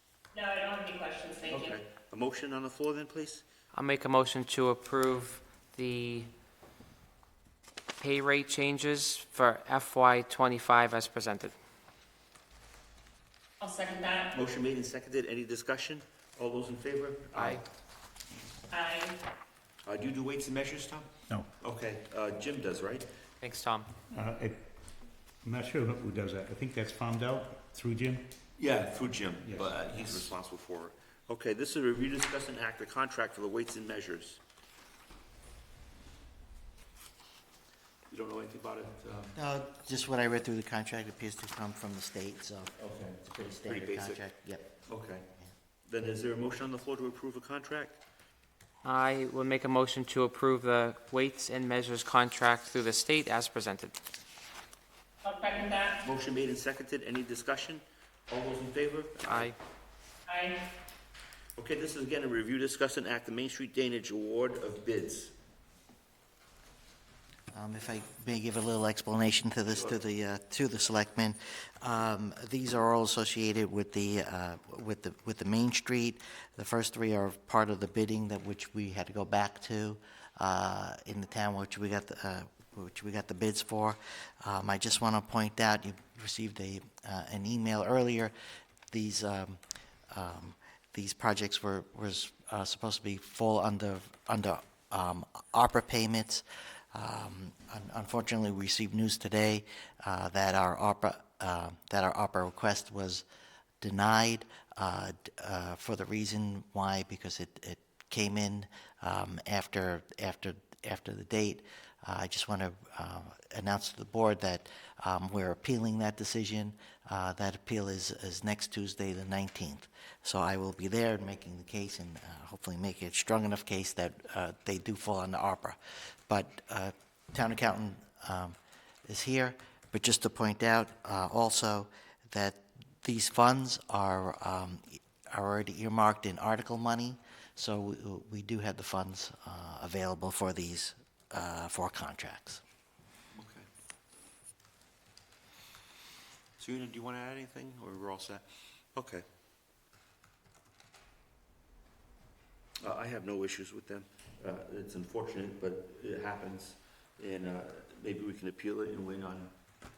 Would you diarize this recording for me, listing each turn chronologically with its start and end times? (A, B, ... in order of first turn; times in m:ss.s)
0:00.3-0:01.7 A
0:01.5-0:03.4 B
0:03.7-0:06.3 C
0:08.0-0:11.5 C
0:13.6-0:14.3 A
0:14.3-0:17.6 B
0:17.3-0:17.6 C
0:18.7-0:19.2 A
0:19.8-0:21.1 B
0:21.6-0:23.0 B
0:23.4-0:23.9 C
0:24.1-0:24.7 D
0:25.4-0:28.2 D
0:28.6-0:34.4 B
0:29.4-0:30.3 D
0:38.1-0:39.4 B
0:39.4-0:42.8 E
0:42.8-0:44.2 B
0:43.3-0:44.7 E
0:44.8-0:45.2 B
0:45.8-0:48.0 B
0:48.8-0:54.0 C
0:55.2-0:56.0 A
0:56.0-0:59.5 B
0:59.2-0:59.6 C
1:00.3-1:00.6 A
1:01.6-1:05.3 B
1:07.5-1:28.3 E
1:28.9-1:29.6 E
1:30.1-1:43.2 E
1:43.8-2:05.8 E
2:06.3-2:08.6 E
2:09.1-2:22.6 E
2:23.3-2:23.6 B
2:26.6-2:29.2 B
2:32.8-2:39.5 B